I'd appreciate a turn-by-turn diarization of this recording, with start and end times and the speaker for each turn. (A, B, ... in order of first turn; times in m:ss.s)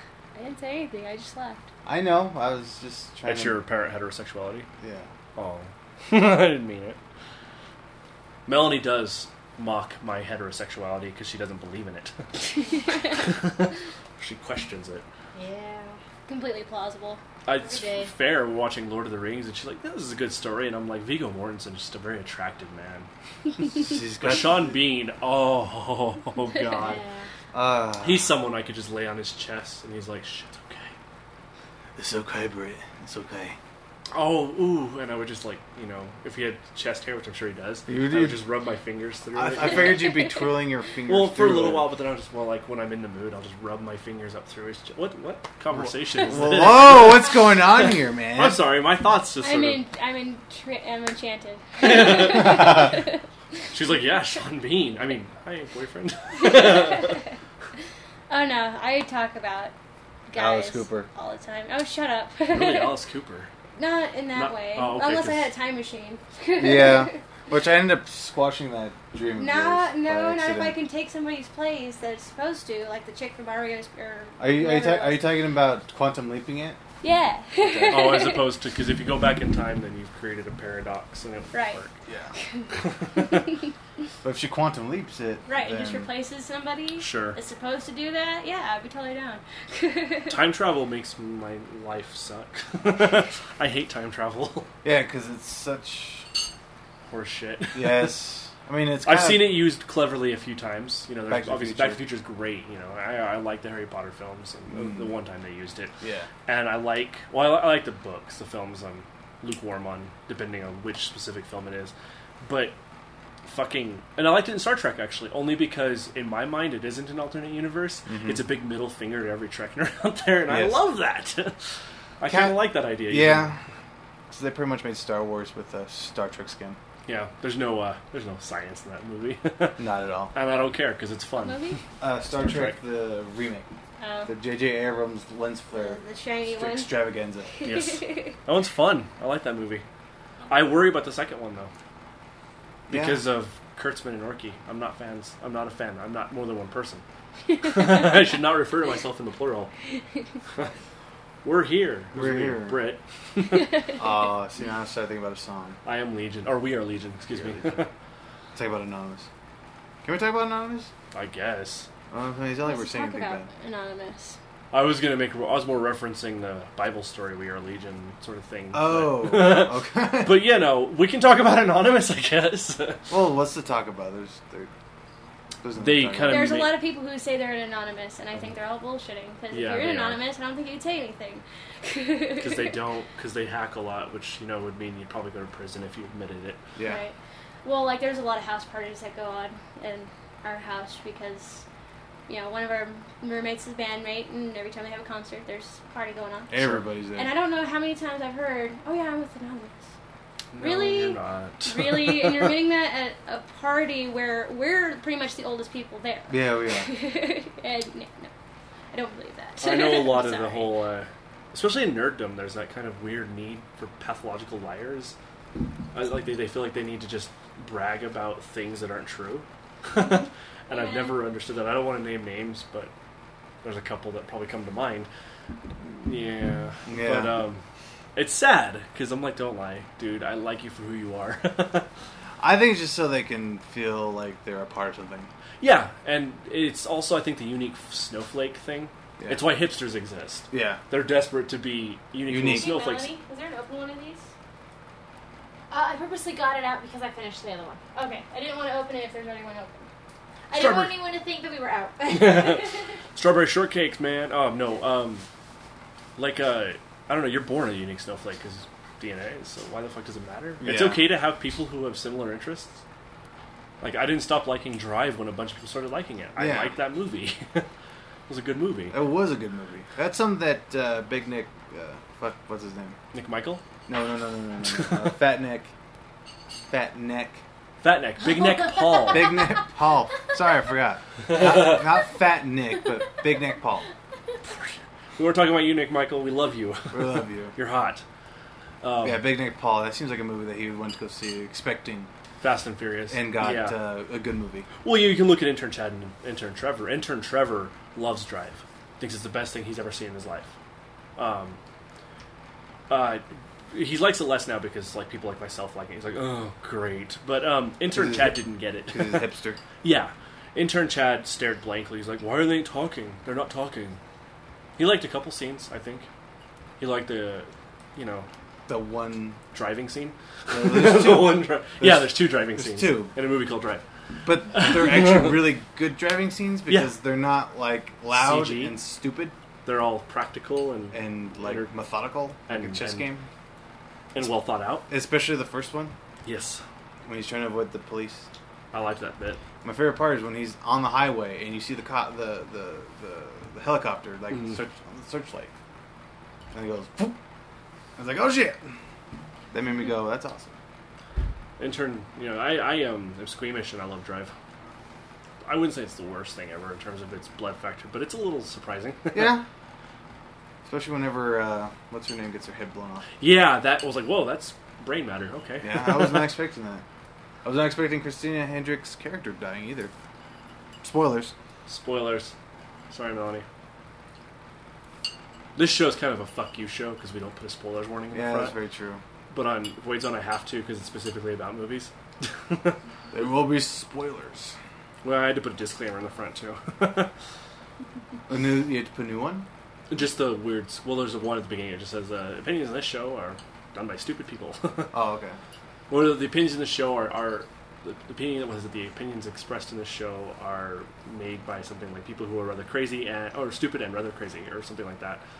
0:00.3-0:01.6 A
0:01.8-0:03.6 B
0:03.2-0:04.7 C
0:04.8-0:05.1 B
0:05.4-0:07.0 C
0:08.4-0:15.0 C
0:12.7-0:13.2 A
0:15.3-0:16.0 D
0:16.3-0:17.2 A
0:17.4-0:23.1 C
0:17.5-0:18.1 D
0:23.6-0:27.0 C
0:23.7-0:24.8 B
0:26.7-0:27.3 D
0:27.5-0:28.3 B
0:28.0-0:30.9 C
0:32.0-0:33.6 B
0:34.1-0:40.1 C
0:37.9-0:38.4 B
0:39.3-0:41.9 B
0:39.6-0:40.5 A
0:41.1-0:49.8 C
0:45.7-0:48.6 B
0:49.4-0:53.2 A
0:51.8-0:52.9 C
0:53.7-0:57.2 C
0:56.4-0:57.3 A
0:58.3-0:59.7 A
1:00.3-1:03.0 A
1:00.3-1:01.1 B
1:02.5-1:03.5 C
1:03.8-1:07.2 A
1:04.3-1:05.5 C
1:06.6-1:10.8 B
1:09.4-1:15.3 A
1:14.4-1:16.8 B
1:17.0-1:18.5 A
1:17.6-1:18.2 B
1:17.9-1:21.9 C
1:21.5-1:21.8 A
1:22.0-1:22.3 B
1:22.4-1:23.6 A
1:22.8-1:23.4 C
1:24.2-1:26.1 B
1:25.5-1:30.4 A
1:27.0-1:27.4 C
1:30.3-1:34.7 C
1:34.8-1:36.3 B
1:37.1-1:38.2 C
1:37.7-1:39.7 B
1:39.0-1:45.9 C
1:41.3-1:42.1 B
1:44.7-1:45.1 B
1:46.0-1:46.3 B
1:46.4-1:52.7 C
1:53.4-2:01.6 C
1:58.1-1:58.4 B
2:00.5-2:00.8 B
2:02.2-2:03.5 C
2:02.3-2:03.6 B
2:04.3-2:06.8 B
2:07.0-2:11.8 C
2:09.8-2:10.3 B
2:11.4-2:11.8 A
2:12.0-2:13.7 B
2:12.3-2:12.8 C
2:14.0-2:14.3 A
2:14.2-2:17.7 B
2:15.7-2:17.0 A
2:17.5-2:18.3 A
2:17.6-2:19.8 C
2:20.5-2:21.7 C
2:22.9-2:23.2 B
2:22.9-2:27.0 C
2:27.5-2:28.0 A
2:27.6-2:29.7 C
2:31.4-2:33.8 C
2:32.1-2:32.8 B
2:33.5-2:34.0 A
2:34.0-2:35.8 B
2:35.8-2:37.9 C
2:37.4-2:37.6 B
2:38.5-2:39.3 B
2:40.0-2:40.9 B
2:41.1-2:41.9 C
2:42.1-2:43.5 B
2:42.6-2:44.4 A
2:44.7-2:53.1 C
2:48.7-2:50.4 B
2:53.1-2:54.7 B
2:55.6-2:56.5 B
2:55.8-2:56.7 C
2:56.2-3:02.8 A
2:59.5-3:00.2 C
3:02.4-3:06.6 C
3:06.8-3:07.0 B
3:06.8-3:11.6 A
3:12.3-3:19.8 A
3:16.5-3:17.3 B
3:20.5-3:22.6 C
3:20.6-3:28.3 A
3:26.3-3:26.9 B
3:28.9-3:30.7 A
3:29.6-3:35.2 C
3:35.9-3:42.9 C
3:40.7-3:41.2 A
3:43.6-3:45.1 C
3:45.8-3:47.6 C
3:46.9-3:47.4 B
3:48.1-3:51.9 C
3:52.4-3:55.3 B
3:55.6-4:03.1 C
3:59.2-3:59.5 B
4:00.5-4:00.8 B
4:02.3-4:02.8 B
4:02.4-4:04.3 A
4:05.7-4:07.8 D
4:07.9-4:09.9 A
4:10.5-4:12.8 D
4:10.5-4:10.9 C
4:12.1-4:15.2 C
4:16.2-4:22.8 C
4:20.6-4:21.0 B
4:23.8-4:27.7 C
4:26.4-4:26.8 B
4:28.3-4:29.0 C
4:28.9-4:33.0 B
4:33.1-4:33.6 C
4:33.9-4:35.7 B
4:34.6-4:35.1 C
4:36.7-4:37.4 B
4:37.8-4:39.4 C
4:38.7-4:39.1 D
4:39.1-4:43.8 B
4:41.2-4:41.8 C
4:44.4-4:48.0 C
4:46.9-4:47.5 B
4:48.8-4:49.3 C
4:49.0-4:52.1 B
4:52.4-4:53.9 C
4:53.1-4:54.7 B
4:54.8-5:00.5 C
5:01.2-5:01.6 C
5:02.9-5:09.3 C
5:07.9-5:09.6 B
5:09.8-5:14.0 C
5:14.8-5:16.1 C
5:16.8-5:18.3 C
5:18.7-5:19.4 B
5:19.5-5:23.8 C
5:20.5-5:23.1 B
5:24.2-5:29.3 B
5:24.5-5:25.5 C
5:26.7-5:26.9 C
5:28.1-5:28.8 C
5:29.6-5:31.7 C
5:30.9-5:33.3 B
5:32.5-5:33.1 C
5:34.1-5:34.9 C
5:34.9-5:35.9 B
5:36.2-5:36.6 C
5:37.0-5:38.3 B
5:38.7-5:39.4 C
5:39.6-5:45.5 B
5:44.3-5:44.6 C
5:46.5-5:47.2 B
5:48.0-5:48.7 B
5:49.5-5:50.6 B
5:51.6-5:54.3 C
5:55.4-5:59.4 C
5:59.1-5:59.4 B
6:00.6-6:03.1 B
6:03.2-6:06.3 C
6:05.6-6:06.8 B
6:07.4-6:09.9 B
6:10.8-6:11.3 B
6:11.7-6:12.3 C
6:12.9-6:13.4 C
6:15.6-6:18.6 C
6:18.1-6:19.0 B
6:19.3-6:22.8 C
6:23.1-6:24.5 B
6:25.0-6:27.1 C
6:28.3-6:29.5 B
6:29.9-6:34.9 C
6:34.9-6:35.4 B
6:35.9-6:45.2 C